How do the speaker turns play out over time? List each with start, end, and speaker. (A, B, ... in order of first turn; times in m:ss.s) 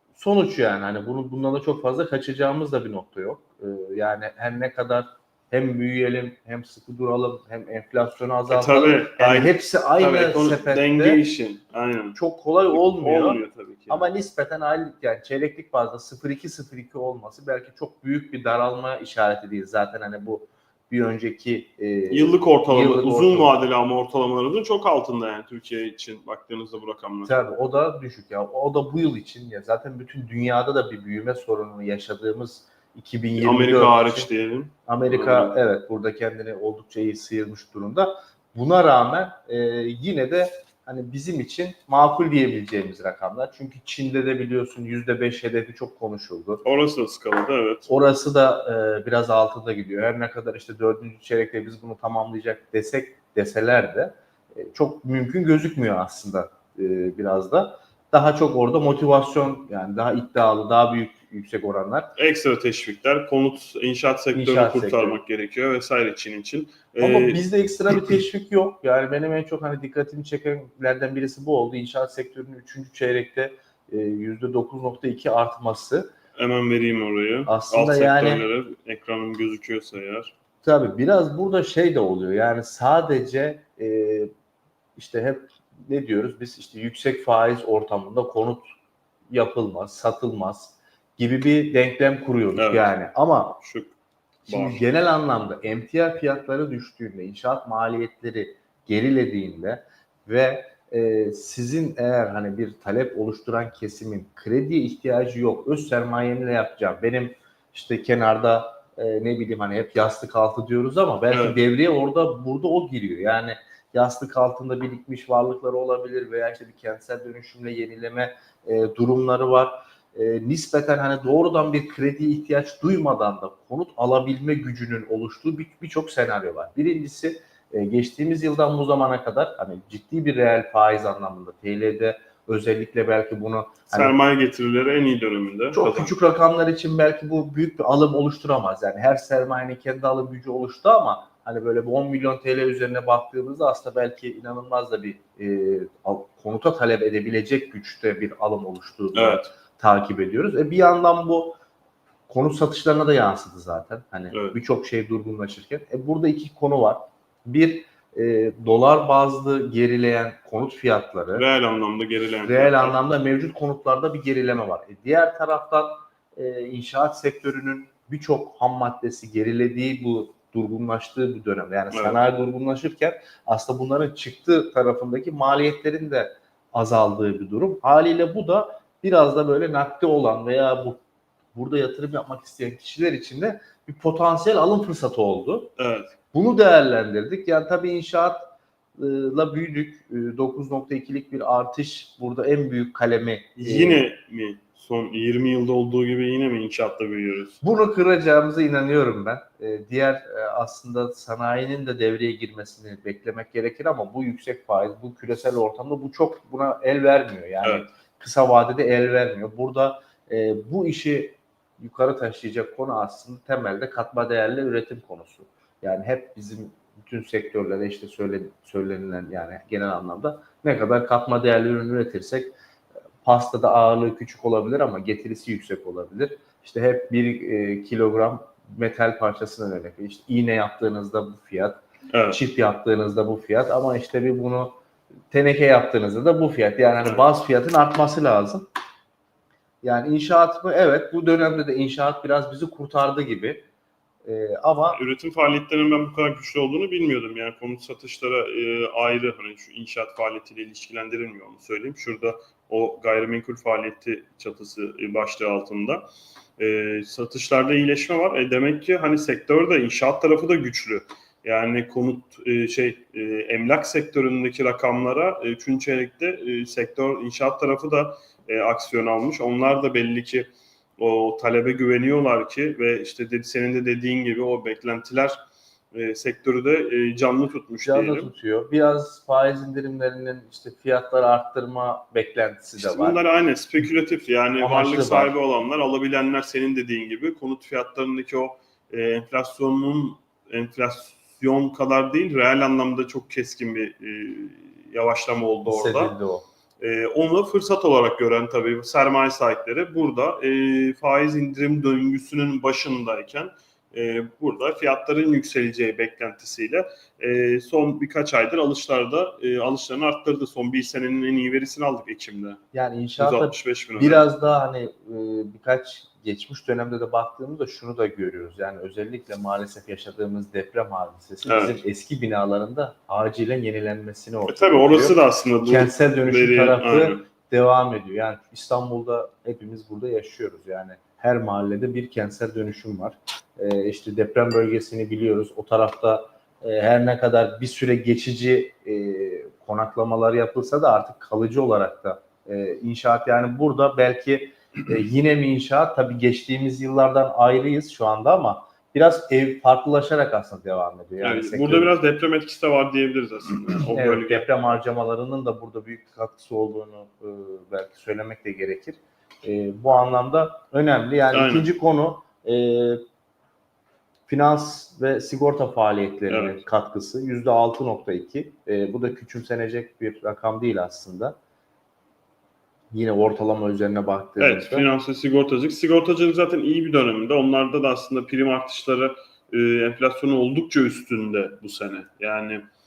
0:00.2-0:11.2 A
0:08.5-0:12.2 B
0:12.2-0:23.5 A
0:12.7-0:14.1 B
0:22.1-0:27.3 B
0:27.3-0:34.3 A
0:33.4-0:35.6 B
0:34.9-0:46.6 A
0:46.6-0:47.9 B
0:47.9-1:02.1 A
1:02.2-1:07.4 B
1:04.3-1:05.2 A
1:07.0-1:16.1 A
1:16.4-1:20.3 B
1:17.5-1:18.4 A
1:20.6-1:24.3 A
1:25.0-1:28.7 A
1:29.3-1:33.6 A
1:32.6-1:32.9 B
1:33.6-1:34.0 B
1:34.5-2:14.2 A
1:34.5-1:34.8 B
1:51.3-1:51.6 B
2:13.9-2:16.1 B
2:15.7-2:31.6 A
2:29.1-2:29.5 B
2:32.3-2:41.4 A
2:34.3-2:34.6 B
2:41.3-2:43.0 B
2:42.4-3:01.0 A
2:51.9-2:52.2 B
3:01.5-3:05.7 A
3:05.8-3:06.1 B
3:06.3-3:08.5 A
3:09.0-3:14.0 A
3:13.6-3:17.6 B
3:17.6-3:42.5 A
3:27.6-3:27.9 B
3:43.2-3:54.8 A
3:52.1-3:52.4 B
3:55.3-3:58.7 A
3:57.0-3:57.3 B
3:59.8-4:03.6 A
4:04.2-4:05.0 A
4:04.9-4:16.1 B
4:16.6-4:35.4 B
4:35.9-4:38.3 B
4:37.8-4:43.2 A
4:42.8-4:56.2 B
4:44.6-4:45.3 A
4:55.7-4:56.4 A
4:56.8-5:12.6 B
5:12.7-5:51.9 A
5:13.2-5:14.2 B
5:21.4-5:21.8 B
5:24.5-5:27.2 B
5:51.2-5:54.5 B
5:53.9-6:03.0 A
6:01.3-6:01.7 B
6:04.3-6:11.4 A
6:06.3-6:06.6 B
6:12.9-6:14.9 A
6:14.4-6:22.7 B